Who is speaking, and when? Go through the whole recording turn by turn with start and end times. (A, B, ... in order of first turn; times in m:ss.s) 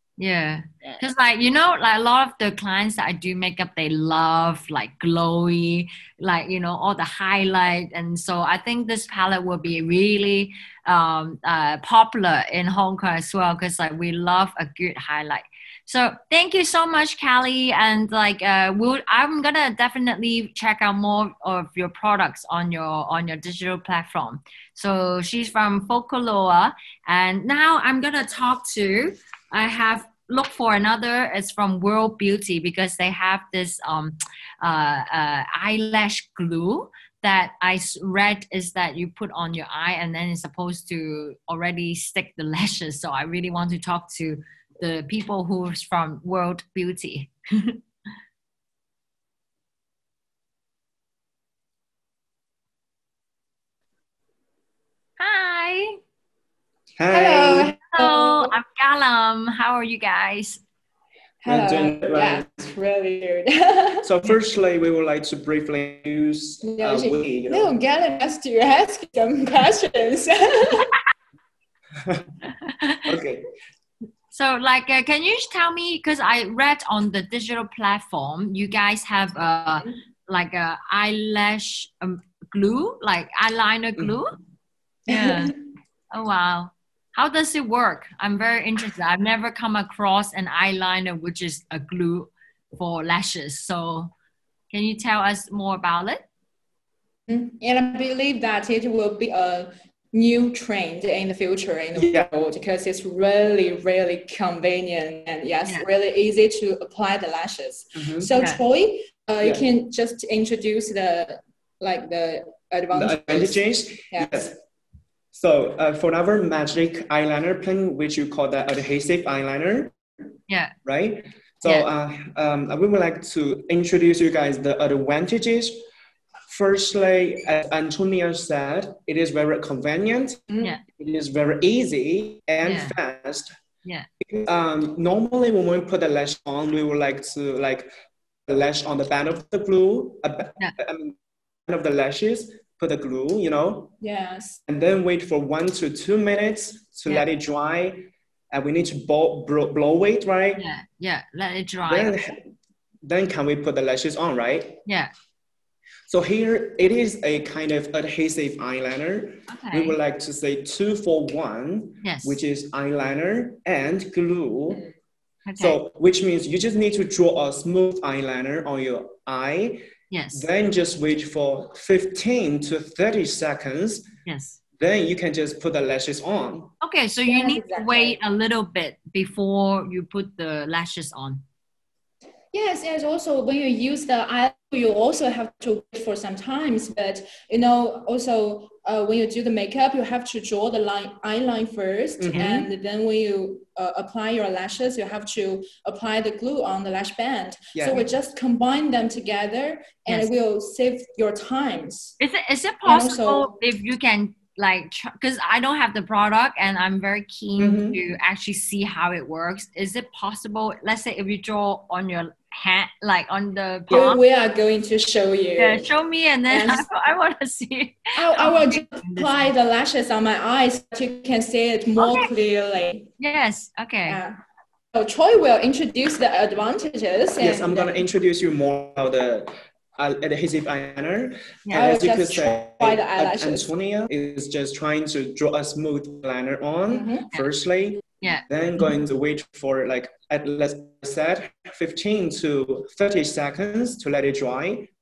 0:00.2-0:47.8 A
0:55.2-0:56.0 A
0:57.0-0:57.8 B
0:57.1-0:58.5 C
0:57.9-1:00.6 A
1:01.4-1:04.1 C
1:01.4-1:02.5 B
1:04.0-1:07.8 B
1:06.6-1:10.9 C
1:12.6-1:13.1 A
1:13.0-1:13.5 B
1:14.3-1:24.4 A
1:25.1-1:25.6 A
1:25.1-1:25.5 C
1:26.1-1:34.1 A
1:34.7-1:36.3 A
1:37.3-1:53.6 C
1:41.9-1:42.3 B
1:48.0-1:48.3 B
1:48.3-1:48.6 A
1:52.9-1:54.6 B
1:54.1-1:54.5 C
1:55.3-1:59.9 B
2:00.5-2:00.7 A
2:00.8-2:05.8 B
2:06.5-2:13.5 B
2:12.6-2:13.0 A
2:14.2-2:17.9 B
2:18.5-2:23.9 B
2:24.0-2:24.6 C
2:24.7-2:30.6 B
2:30.6-2:32.2 A
2:31.9-2:32.4 B
2:33.0-2:34.8 B
2:34.8-2:35.1 A
2:36.1-2:44.9 B
2:39.5-2:40.0 A
2:42.0-2:42.4 A
2:45.4-2:45.8 A
2:45.6-2:54.0 B
2:50.1-2:50.5 A
2:54.2-2:54.6 A
2:54.8-2:56.7 B
2:56.8-3:01.4 A
2:57.3-2:58.2 C
3:02.5-3:22.1 C
3:12.2-3:12.6 B
3:12.3-3:12.6 A
3:17.7-3:18.0 B
3:22.2-3:34.2 A
3:22.8-3:23.5 C
3:27.6-3:28.0 B
3:33.9-3:35.8 C
3:35.6-3:39.5 A
3:36.5-3:36.9 C
3:38.2-3:43.1 C
3:42.0-3:42.3 A
3:43.2-3:44.2 A
3:44.1-3:44.4 C
3:44.9-3:48.0 C
3:47.4-4:04.9 B
3:51.7-3:53.7 C
3:56.9-3:57.3 C
3:58.2-3:58.9 A